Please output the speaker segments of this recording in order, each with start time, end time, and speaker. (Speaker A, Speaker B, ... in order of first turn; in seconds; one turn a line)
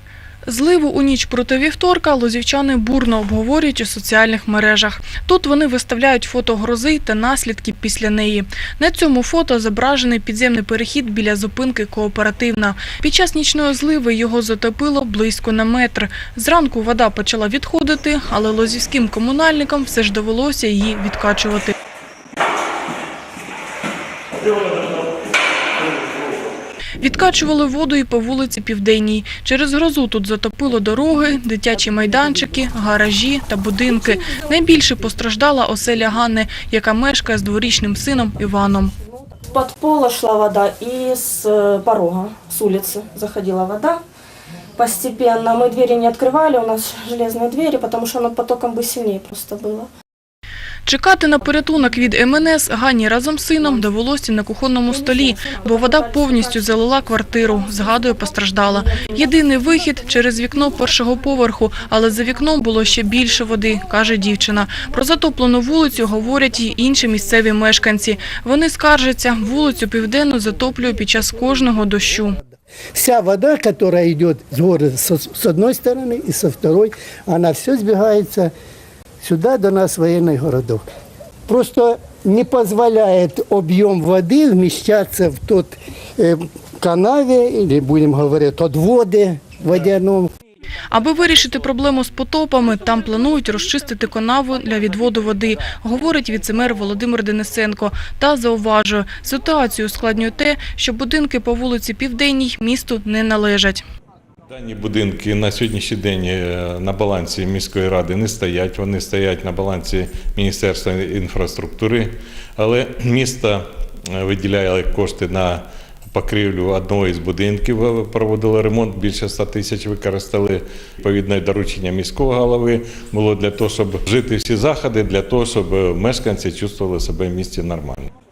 Speaker A: 0.5-21.7
Speaker A: 27.0-38.9
Speaker B: 39.5-44.0
Speaker B: 44.8-49.9
Speaker A: 50.9-72.4
Speaker B: 54.9-56.7
Speaker B: 58.7-59.2
Speaker C: 72.9-78.5
Speaker C: 79.2-80.8
Speaker C: 81.5-90.3
Speaker A: 90.9-103.8
Speaker D: 104.5-128.1